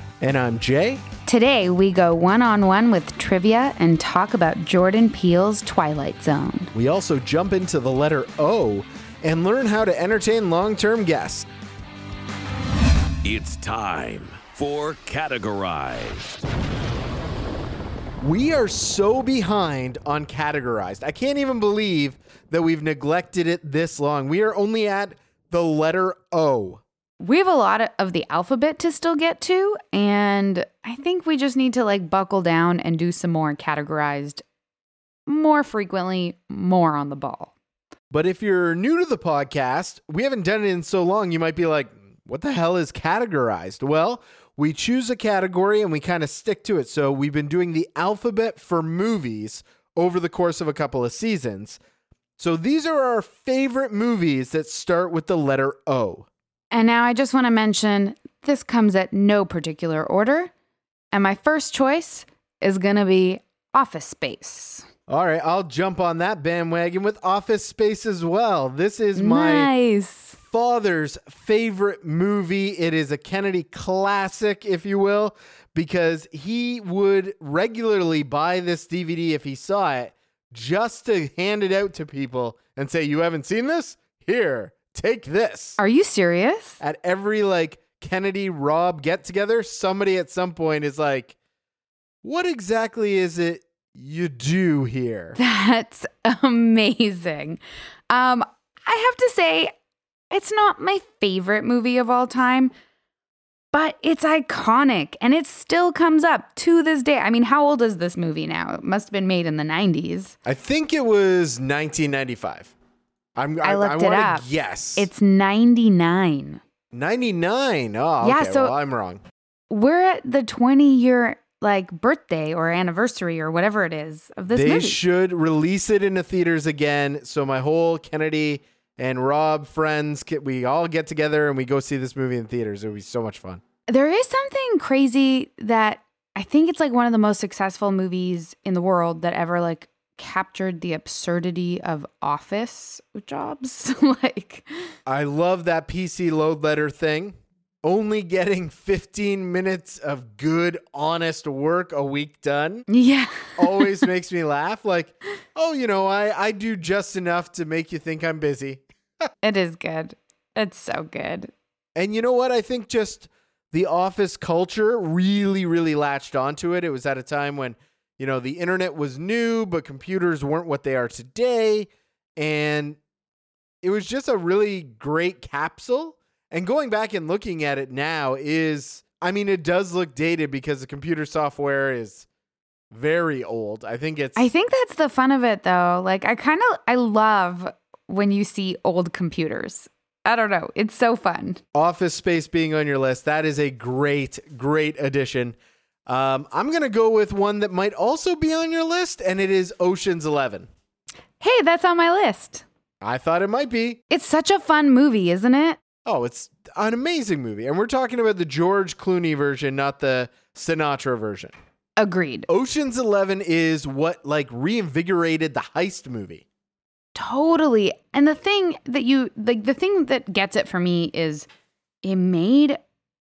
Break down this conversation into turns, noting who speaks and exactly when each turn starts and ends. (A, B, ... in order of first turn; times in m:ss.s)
0:00.2-0:01.0 A
0:01.2-0:06.7 B
0:06.7-0:11.5 A
0:13.2-0:16.4 C
0:18.2-0:26.8 A
0:27.2-0:34.4 B
0:35.3-0:37.5 B
0:38.1-0:51.8 A
0:52.4-0:56.2 A
0:56.7-1:00.5 B
1:01.1-1:04.8 B
1:05.1-1:09.7 A
1:09.1-1:10.4 B
1:10.4-1:25.8 A
1:25.8-1:26.8 B
1:26.8-1:31.3 A
1:32.2-1:35.4 A
1:35.4-1:39.7 B
1:40.3-1:42.7 B
1:43.7-1:50.3 B
1:50.4-1:52.7 A
1:53.4-1:55.1 A
1:53.6-1:56.6 B
1:56.9-1:59.2 A
1:58.2-1:58.7 B
1:59.7-2:05.0 B
2:04.5-2:13.6 A
2:13.9-2:24.9 B
2:25.0-2:32.9 A
2:32.9-2:34.0 B
2:33.6-2:39.3 A
2:39.4-2:41.5 B
2:41.9-2:53.0 A
2:53.8-3:02.2 A
3:02.9-3:04.5 A
3:04.4-3:11.6 B
3:11.7-3:20.7 A
3:21.4-3:22.6 B
3:23.0-3:24.0 A
3:24.1-3:25.8 B
3:26.0-3:31.5 A
3:32.0-3:32.5 B
3:32.5-3:36.4 A
3:37.1-3:41.5 B
3:42.0-3:42.8 B